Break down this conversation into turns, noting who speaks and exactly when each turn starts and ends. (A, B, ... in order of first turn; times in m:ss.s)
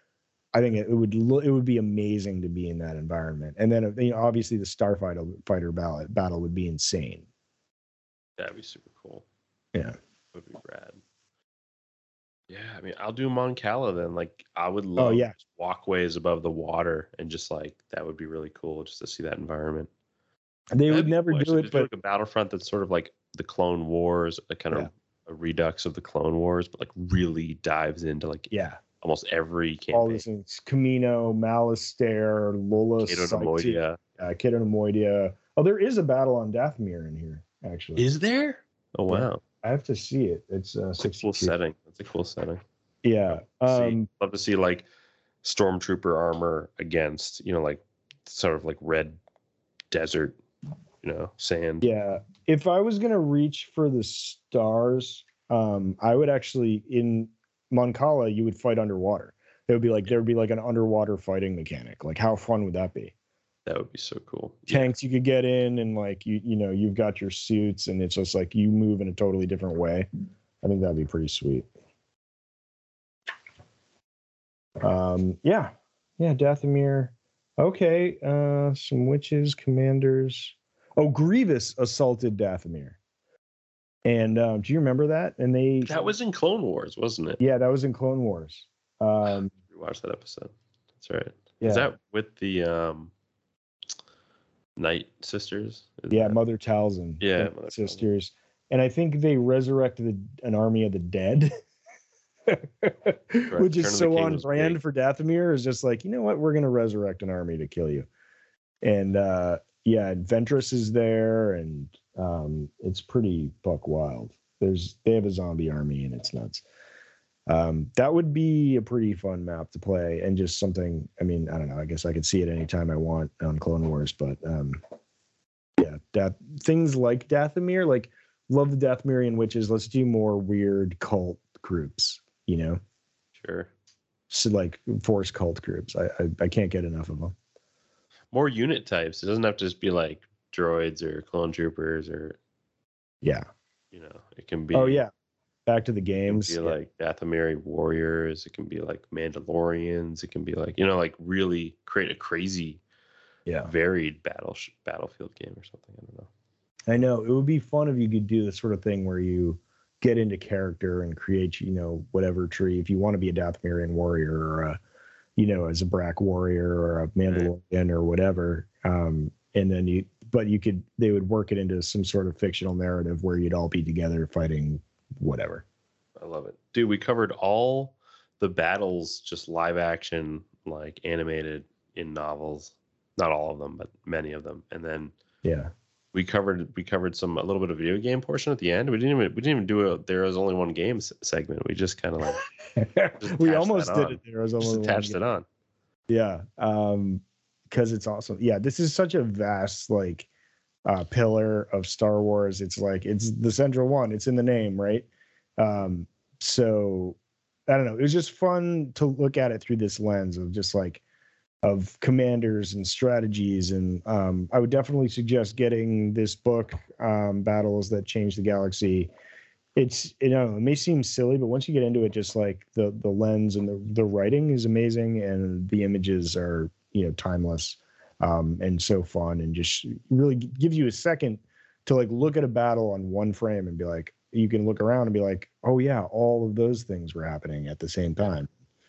0:00.5-0:07.3 A
0:08.4-0:09.2 B
0:10.3-0:11.0 B
0:12.5-0:19.9 B
0:15.0-0:15.3 A
0:20.7-0:21.9 A
0:20.9-0:30.2 B
0:28.5-0:28.8 A
0:29.9-0:38.1 A
0:33.0-0:34.0 B
0:38.0-0:39.4 B
0:39.1-0:41.6 A
0:41.0-0:42.6 B
0:43.0-0:44.1 A
0:43.3-0:44.8 B
0:45.4-0:49.2 B
0:49.9-0:50.4 B
0:51.0-0:51.9 B
0:51.8-1:03.1 A
1:03.7-1:04.9 B
1:04.7-1:10.1 A
1:10.6-1:11.7 A
1:14.8-1:23.0 A
1:24.0-1:25.9 A
1:25.8-1:27.4 B
1:27.4-1:29.5 A
1:29.7-1:33.1 B
1:31.6-1:31.9 A
1:34.8-1:36.4 B
1:36.1-1:41.5 A
1:37.2-1:38.1 B
1:42.5-1:48.1 A
1:43.5-1:44.8 B
1:48.8-1:56.6 A
1:57.5-2:04.8 A
2:05.8-2:12.8 A
2:13.4-2:13.7 B
2:14.3-2:17.4 A
2:18.3-2:22.4 B
2:23.9-2:25.0 B
2:24.7-2:25.1 A
2:25.7-2:26.8 A
2:26.3-2:32.8 B
2:33.6-2:36.3 B
2:36.9-2:44.8 A
2:45.4-2:55.6 A
2:56.2-3:05.1 B
3:05.4-3:05.7 A
3:06.1-3:12.4 B
3:12.8-3:15.2 A
3:13.2-3:15.5 B
3:16.1-3:20.3 A
3:20.9-3:25.1 A
3:25.6-3:31.0 A
3:31.6-3:39.1 A
3:39.8-3:58.5 A